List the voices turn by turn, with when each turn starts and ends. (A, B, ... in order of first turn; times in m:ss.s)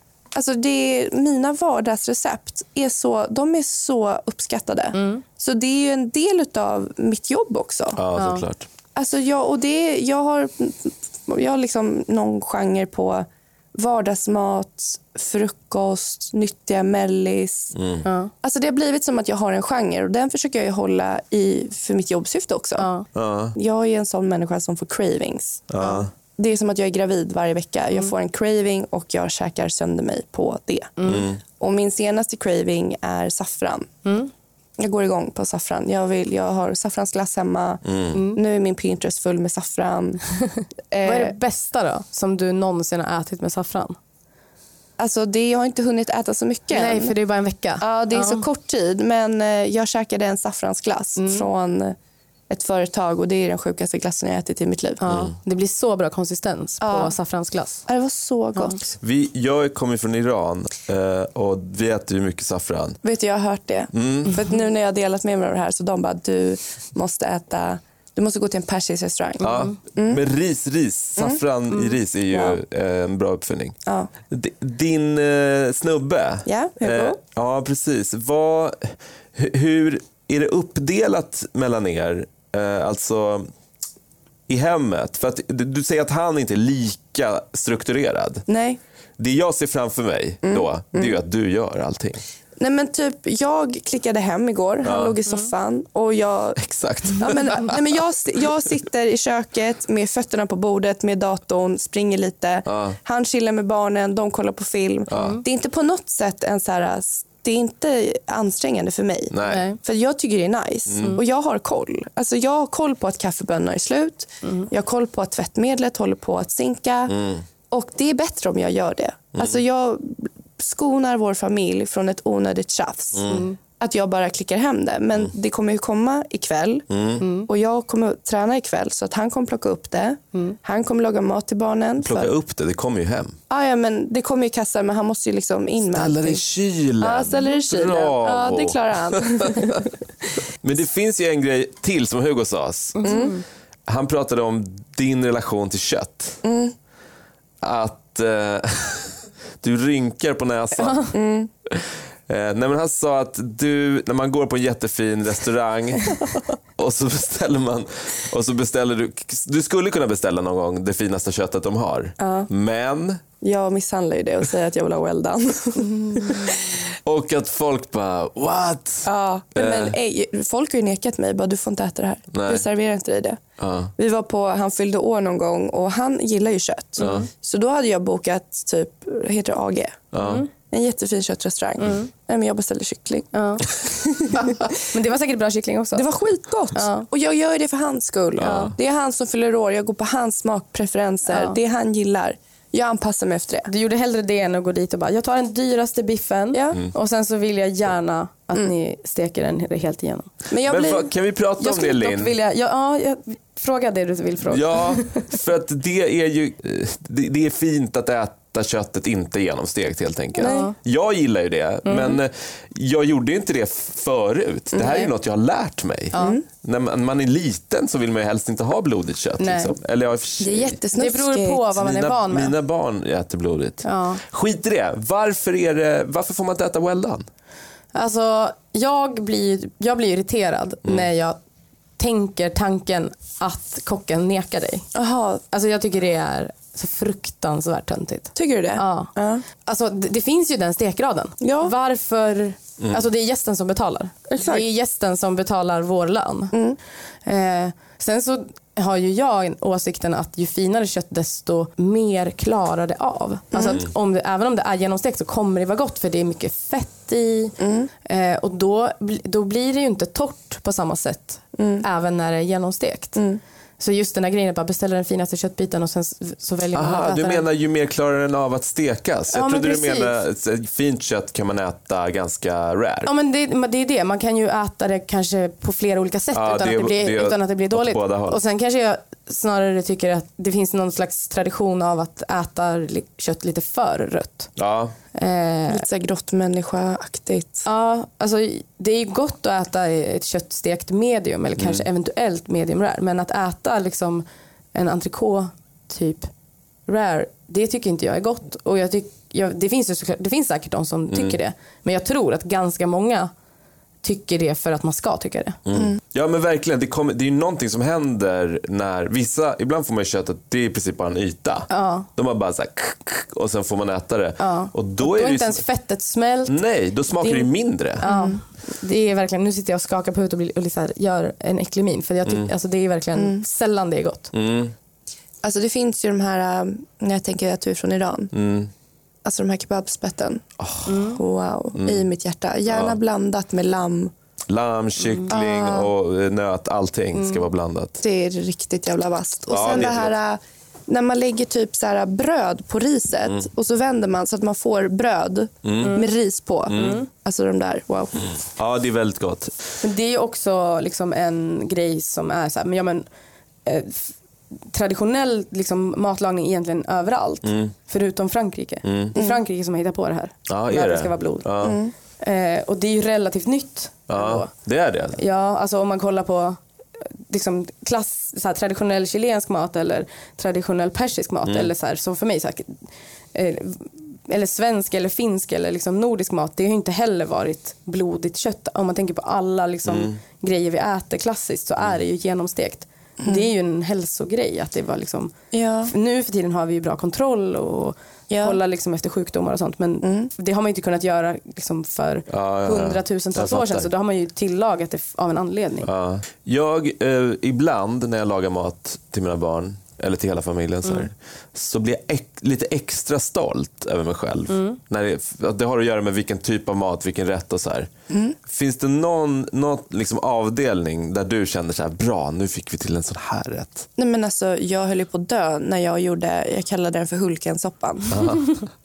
0:00.3-0:08.0 A
0:04.9-0:05.2 B
0:08.0-0:08.7 C
0:08.2-0:08.4 B
0:09.0-0:17.7 A
0:17.7-0:18.1 C
0:18.0-0:18.3 B
0:18.4-0:22.9 A
0:22.8-0:23.1 B
0:23.1-0:23.6 C
0:23.6-0:33.9 A
0:25.7-0:26.1 C
0:31.0-0:31.3 B
0:31.0-0:31.4 C
0:34.0-0:34.3 B
0:34.8-0:40.2 A
0:37.8-0:38.2 C
0:38.2-0:38.4 B
0:40.6-0:44.0 B
0:40.9-0:41.4 A
0:45.0-0:47.2 A
0:46.7-0:48.5 B
0:47.8-0:52.0 A
0:51.2-0:51.5 B
0:52.5-0:55.0 A
0:55.0-0:57.8 B
0:55.1-0:55.3 C
0:56.8-0:57.1 A
0:57.9-0:58.8 A
0:59.0-1:03.0 C
1:03.0-1:10.2 A
1:03.9-1:04.4 C
1:09.4-1:13.8 C
1:09.4-1:09.7 B
1:12.3-1:12.6 A
1:13.9-1:14.1 A
1:14.3-1:23.5 C
1:16.5-1:17.2 A
1:24.5-1:28.4 C
1:28.5-1:28.8 A
1:29.2-1:32.2 C
1:30.4-1:31.2 A
1:32.6-1:36.6 A
1:34.8-1:35.2 C
1:36.6-1:37.8 C
1:37.1-1:57.2 A
1:42.7-1:43.0 C
1:45.1-1:45.4 C
1:45.2-1:45.4 B
1:49.3-1:49.7 C
1:49.4-1:49.8 B
1:50.9-1:51.2 C
1:54.4-1:54.7 B
1:57.1-1:57.4 C
1:57.7-2:06.8 A
1:59.4-1:59.6 C
2:03.1-2:03.5 C
2:03.3-2:03.6 B
2:06.9-2:07.2 C
2:07.2-2:07.5 B
2:07.5-2:12.3 A
2:12.0-2:13.4 C
2:13.5-2:16.4 A
2:15.9-2:19.8 C
2:17.0-2:20.0 A
2:20.6-2:23.2 C
2:23.0-2:23.4 B
2:23.0-2:23.4 A
2:23.9-2:26.4 C
2:26.4-2:26.8 A
2:27.6-2:31.2 C
2:30.8-2:31.1 B
2:31.1-2:31.5 A
2:31.7-2:36.2 C
2:36.8-2:43.2 C
2:42.2-2:42.5 A
2:43.4-2:46.9 A
2:47.0-2:50.0 C
2:49.0-2:53.4 A
2:52.3-2:52.7 C
2:53.6-2:53.9 C
2:54.0-3:00.1 A
2:57.0-2:57.3 C
3:00.1-3:00.5 C
3:00.2-3:00.5 B
3:00.7-3:04.8 A
3:03.3-3:03.7 B
3:04.2-3:06.1 B
3:05.9-3:13.7 A
3:06.8-3:07.1 B
3:08.4-3:08.8 C
3:08.4-3:08.7 B
3:11.3-3:11.6 B
3:13.7-3:20.3 B
3:16.5-3:16.8 A
3:20.5-3:21.1 A
3:20.7-3:22.3 C
3:21.6-3:25.4 B
3:24.5-3:40.8 C
3:30.4-3:30.8 B
3:30.4-3:30.7 A
3:31.9-3:32.2 B
3:34.8-3:35.1 B
3:36.1-3:36.4 B
3:36.2-3:36.4 A
3:39.4-3:39.7 B
3:40.4-3:41.7 A
3:40.9-3:42.6 B
3:41.8-3:47.3 C
3:43.8-3:44.2 B
3:47.9-3:51.4 B
3:52.0-3:54.9 B
3:54.9-3:55.4 A
3:55.5-4:06.5 B
3:58.4-3:59.5 A
4:01.4-4:01.7 A
4:04.3-4:04.7 A
4:06.5-4:06.8 A
4:07.2-4:23.2 B
4:13.5-4:13.8 A
4:17.6-4:17.9 A
4:21.6-4:21.8 A
4:23.2-4:23.4 A
4:23.8-4:27.4 B
4:26.7-4:33.1 C
4:29.3-4:30.2 B
4:33.1-4:44.5 B
4:36.3-4:38.4 C
4:44.6-4:44.9 C
4:45.2-4:45.8 B
4:45.7-4:47.7 A
4:47.7-4:56.3 B
4:51.6-4:51.9 C
4:56.9-5:03.3 B
5:01.1-5:01.4 C
5:04.0-5:05.6 B
5:05.7-5:15.6 C
5:11.7-5:12.1 B
5:14.4-5:16.6 B
5:16.5-5:18.1 C
5:17.2-5:24.3 B
5:18.0-5:18.4 A
5:22.2-5:22.5 C
5:23.2-5:23.4 A
5:24.3-5:24.7 C
5:25.4-5:28.3 A
5:28.3-5:28.7 C
5:29.2-5:30.4 A
5:30.6-5:31.0 C
5:30.9-5:31.2 B
5:31.1-5:34.1 A
5:31.8-5:32.1 C
5:32.7-5:33.0 C
5:34.5-5:38.0 C
5:35.0-5:35.3 B
5:35.3-5:35.9 A
5:37.2-5:37.4 B
5:38.0-5:48.3 A
5:39.5-5:40.2 C
5:45.6-5:46.0 C
5:45.8-5:46.1 B
5:46.7-5:47.0 C
5:46.7-5:47.1 B
5:48.3-5:49.5 C
5:49.8-5:53.0 B
5:53.6-5:54.1 B
5:54.7-6:01.5 B
5:57.4-5:57.7 C
5:58.8-5:59.2 C
5:59.2-5:59.4 A
6:00.5-6:01.8 C
6:01.6-6:01.9 A
6:02.2-6:04.5 B
6:04.1-6:05.2 C
6:05.2-6:06.6 B
6:07.3-6:12.8 B
6:11.4-6:11.7 C
6:13.3-6:25.3 B
6:19.8-6:20.2 C
6:23.2-6:23.5 A
6:25.5-6:25.9 A
6:25.9-6:35.9 B
6:28.3-6:28.6 A
6:30.0-6:30.3 A
6:32.3-6:33.9 C
6:35.8-6:47.9 C
6:44.5-6:44.8 B
6:48.1-6:48.4 A
6:48.5-6:53.9 C
6:54.0-6:58.4 A
6:58.1-6:58.6 C